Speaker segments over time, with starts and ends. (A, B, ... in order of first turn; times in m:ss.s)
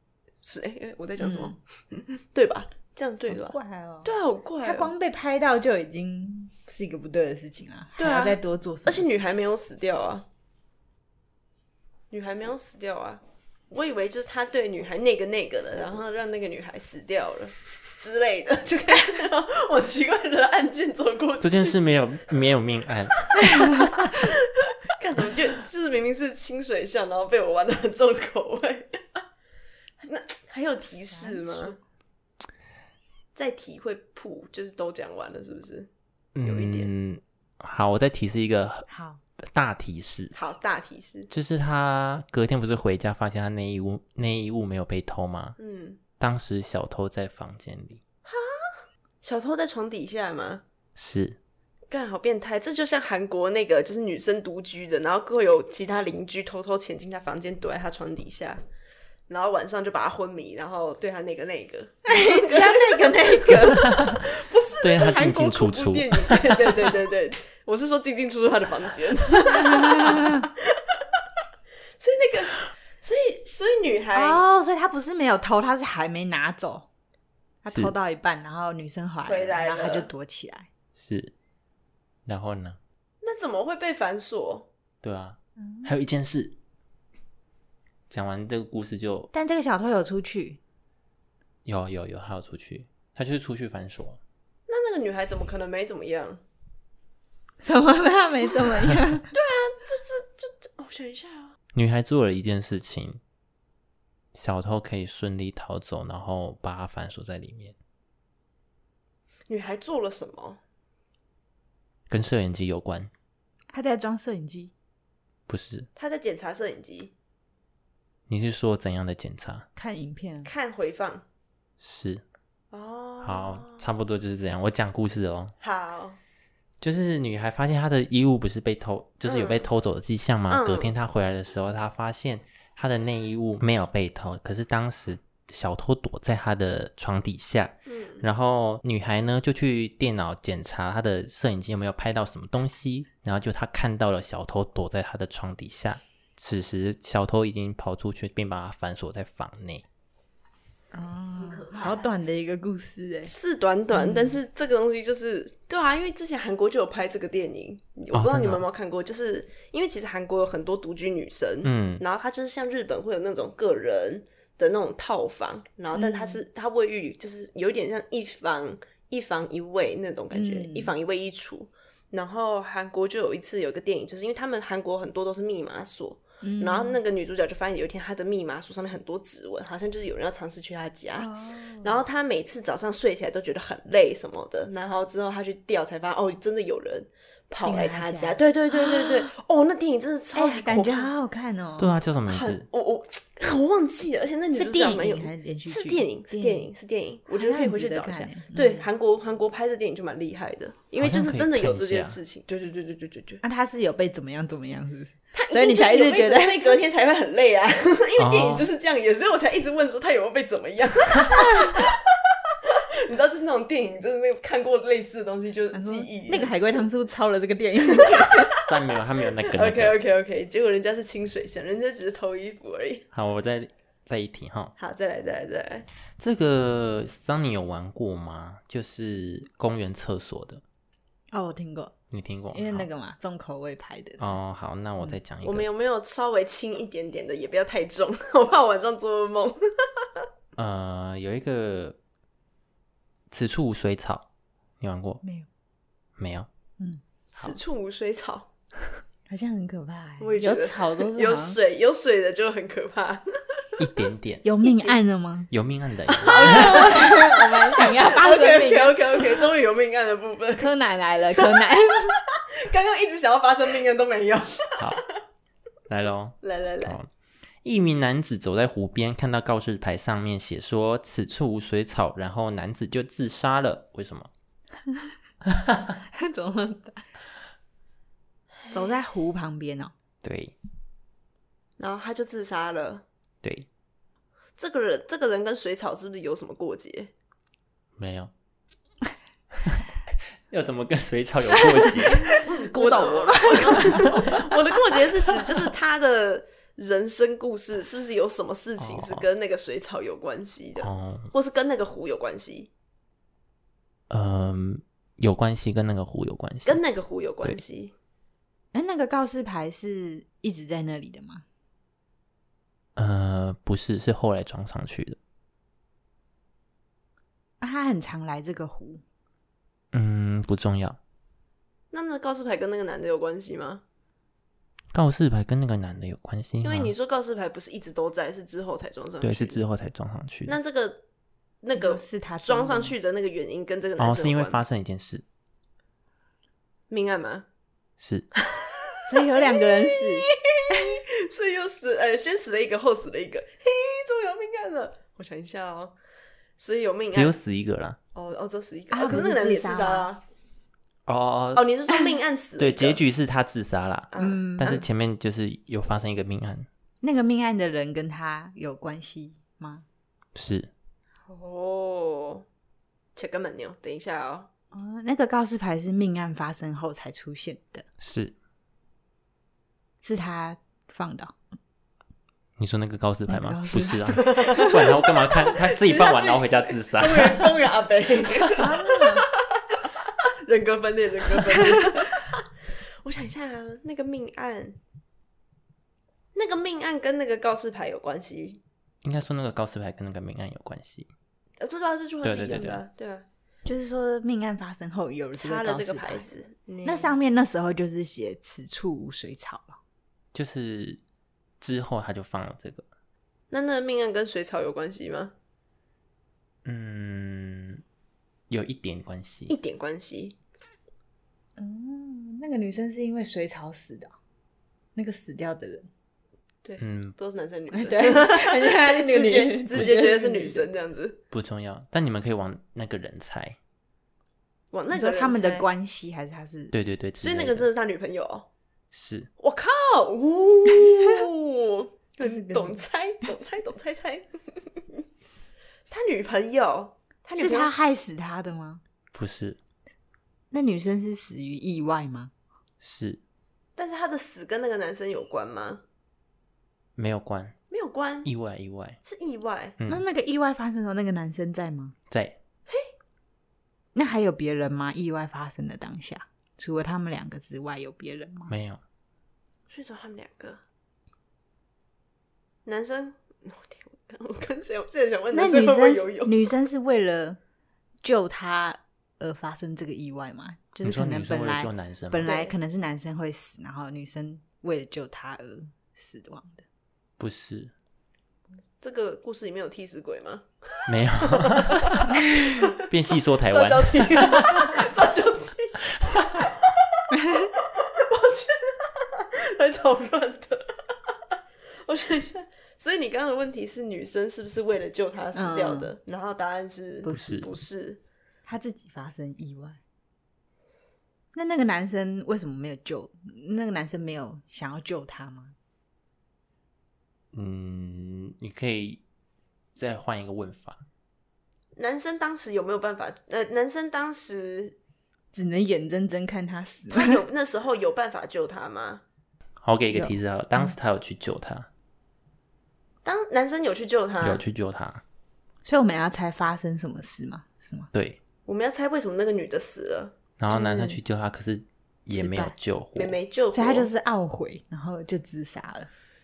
0:00.4-0:04.9 A
0:01.2-0:01.6 B
0:03.3-0:04.1 B
0:04.6-0:09.3 B
0:08.0-0:10.2 A
0:12.1-0:21.8 A
0:21.4-0:23.2 C
0:23.5-0:23.8 B
0:24.0-0:29.2 A
0:30.0-0:31.8 A
0:31.1-0:31.8 B
0:33.3-0:35.9 A
0:36.4-0:38.8 C
0:36.4-0:36.9 A
0:38.9-0:39.2 B
0:39.4-0:40.3 C
0:40.3-0:41.3 A
0:41.3-0:45.6 C
0:45.6-0:46.0 A
0:46.2-0:48.0 C
0:48.2-0:50.6 A
0:51.0-0:51.4 C
0:51.9-0:58.6 A
0:59.3-1:10.8 A
1:02.0-1:03.9 B
1:03.8-1:04.3 C
1:04.8-1:06.9 C
1:09.5-1:10.4 B
1:12.0-1:14.4 A
1:14.1-1:16.8 B
1:17.6-1:20.7 B
1:19.2-1:20.1 A
1:20.9-1:21.3 C
1:22.2-1:22.8 C
1:23.2-1:24.7 A
1:25.0-1:26.5 C
1:25.6-1:25.9 B
1:28.1-1:29.3 C
1:29.3-1:30.6 B
1:31.6-1:34.2 C
1:34.7-1:36.4 A
1:37.6-1:39.3 B
1:39.3-1:41.6 A
1:41.7-1:43.2 C
1:44.3-1:47.8 C
1:49.5-1:50.6 A
1:52.1-1:53.1 C
1:53.7-1:54.7 B
1:55.5-1:55.9 C
1:56.0-1:57.1 A
1:58.3-1:59.6 C
1:59.8-2:00.5 B
2:00.4-2:01.2 A
2:01.8-2:02.2 C
2:02.7-2:03.8 A
2:03.2-2:05.5 C
2:05.6-2:06.2 A
2:06.8-2:29.8 C
2:09.2-2:09.7 A
2:10.5-2:10.9 A
2:17.9-2:18.2 A
2:30.9-2:33.3 B
2:31.4-2:32.1 A
2:33.2-3:01.3 A
2:33.9-2:34.4 B
2:38.1-2:38.6 C
2:41.6-2:42.0 C
2:45.9-2:46.4 B
2:50.3-2:50.9 B
2:56.4-2:57.0 B
3:01.2-3:02.0 B
3:01.8-3:11.1 A
3:07.6-3:09.3 B
3:10.3-3:11.9 B
3:11.8-3:12.6 C
3:12.3-3:23.4 A
3:14.5-3:16.7 B
3:17.3-3:18.8 B
3:21.0-3:22.2 C
3:23.4-3:26.8 B
3:25.3-3:36.8 A
3:28.2-3:28.7 C
3:31.3-3:31.8 B
3:35.7-3:38.5 B
3:37.8-3:38.7 A
3:38.7-3:40.0 C
3:39.4-3:43.0 A
3:43.1-3:44.7 C
3:44.8-3:45.9 A
3:46.2-3:50.6 C
3:51.3-3:51.9 B
3:52.1-3:52.9 C
3:52.5-3:54.3 B
3:54.2-3:55.7 C
3:55.4-4:00.2 A
4:00.6-4:02.0 C
4:03.3-4:04.2 C
4:04.8-4:05.2 C
4:06.2-4:06.5 C
4:07.3-4:08.5 A
4:09.3-4:11.6 B
4:10.2-4:13.8 A
4:13.8-4:14.4 C
4:14.4-4:15.5 B
4:14.6-4:14.9 A
4:15.5-4:17.0 C
4:16.1-4:20.7 A
4:16.2-4:19.2 B
4:20.6-4:22.2 B
4:21.4-4:25.0 A
4:25.9-4:27.1 C
4:26.4-4:27.0 A
4:27.6-4:34.3 C
4:35.5-4:35.9 C
4:36.1-4:37.1 B
4:38.7-4:39.9 B
4:40.2-4:40.5 C
4:41.8-4:43.0 A
4:44.6-4:47.1 A
4:48.0-4:48.3 C
4:49.6-4:54.2 C
4:51.6-4:52.4 B
4:52.3-5:02.7 A
4:53.3-4:54.2 B
4:58.8-4:59.2 C
5:00.8-5:01.3 C
5:04.1-5:06.8 C
5:06.6-5:07.9 A
5:08.7-5:11.4 B
5:13.0-5:15.2 C
5:17.6-5:19.0 B
5:19.9-5:21.0 C
5:21.9-5:23.8 A
5:24.9-5:26.9 C
5:26.6-5:29.6 A
5:29.2-5:30.6 C
5:30.5-5:31.0 A
5:31.6-5:34.6 A
5:31.8-5:32.9 B
5:34.0-5:35.2 C
5:36.9-5:37.4 A
5:38.0-5:38.3 C
5:38.4-5:45.9 A
5:39.1-5:41.0 B
5:46.6-5:47.4 A
5:47.1-5:48.0 C
5:48.1-5:50.2 A
5:48.9-5:50.1 B
5:51.1-5:51.6 C
5:51.5-5:53.0 A
5:52.6-5:56.7 C
5:54.1-5:54.8 A
5:54.2-5:54.8 B
5:57.0-5:59.8 B
6:00.3-6:00.7 C
6:01.3-6:02.4 A
6:03.1-6:04.5 A
6:04.7-6:07.8 B
6:08.0-6:08.3 C
6:10.0-6:11.3 B
6:12.6-6:17.6 C
6:13.3-6:14.8 B
6:14.1-6:19.9 A
6:18.6-6:19.3 B
6:20.4-6:22.4 A
6:23.0-6:24.8 A
6:26.3-6:28.6 A
6:29.0-6:31.1 C
6:31.6-6:33.2 A
6:32.2-6:32.8 C
6:33.6-6:36.3 B
6:35.3-6:37.1 A
6:36.8-6:39.8 B
6:40.3-6:41.0 C
6:41.6-6:42.8 C
6:43.5-6:45.3 A
6:46.6-6:47.8 C
6:48.5-6:49.5 C
6:49.5-6:50.4 A
6:51.6-6:54.1 B
6:55.0-6:55.9 B
6:56.6-7:01.2 A
6:56.8-6:57.1 C
6:57.7-7:00.6 B
7:01.3-7:03.6 C
7:04.7-7:05.6 A
7:04.9-7:06.7 B
7:06.7-7:07.7 C
7:07.2-7:08.5 A
7:08.9-7:09.3 C
7:09.4-7:15.0 A
7:10.7-7:11.1 B
7:12.2-7:12.8 B
7:15.9-7:17.8 A
7:17.4-7:18.8 B
7:19.1-7:19.6 C
7:20.5-7:22.3 B
7:22.8-7:23.2 C
7:23.8-7:25.8 A
7:27.0-7:27.5 C
7:27.7-7:28.3 A
7:28.2-7:29.0 C
7:29.0-7:29.8 A
7:29.9-7:31.9 B
7:32.1-7:32.4 C
7:33.9-7:38.5 B
7:38.5-7:38.8 C
7:39.7-7:40.6 A
7:42.6-7:46.5 A
7:45.3-7:47.4 B
7:48.0-7:56.6 B
7:50.8-7:52.3 C
7:52.2-7:52.5 A
7:57.2-7:57.7 C
7:58.8-8:02.8 A
8:00.9-8:02.2 C
8:02.8-8:04.9 C
8:03.5-8:07.0 A
8:06.0-8:06.4 C
8:07.1-8:07.5 B
8:07.5-8:10.9 A
8:11.8-8:18.0 A
8:15.3-8:15.9 B
8:17.0-8:17.4 B
8:17.1-8:17.5 C
8:18.4-8:19.8 B
8:21.3-8:25.5 B
8:27.3-8:29.0 C
8:29.8-8:30.8 C
8:31.8-8:34.8 A
8:35.3-8:37.2 B
8:36.9-8:39.0 A
8:39.6-8:41.7 C
8:39.9-8:40.7 B
8:43.0-8:44.4 A
8:44.2-8:45.0 C
8:45.6-8:47.9 B
8:47.9-8:48.2 C
8:48.4-8:50.1 A
8:50.4-8:53.2 C
8:50.5-8:51.0 B
8:52.1-8:52.5 B
8:52.9-8:53.9 A
8:53.5-8:55.9 B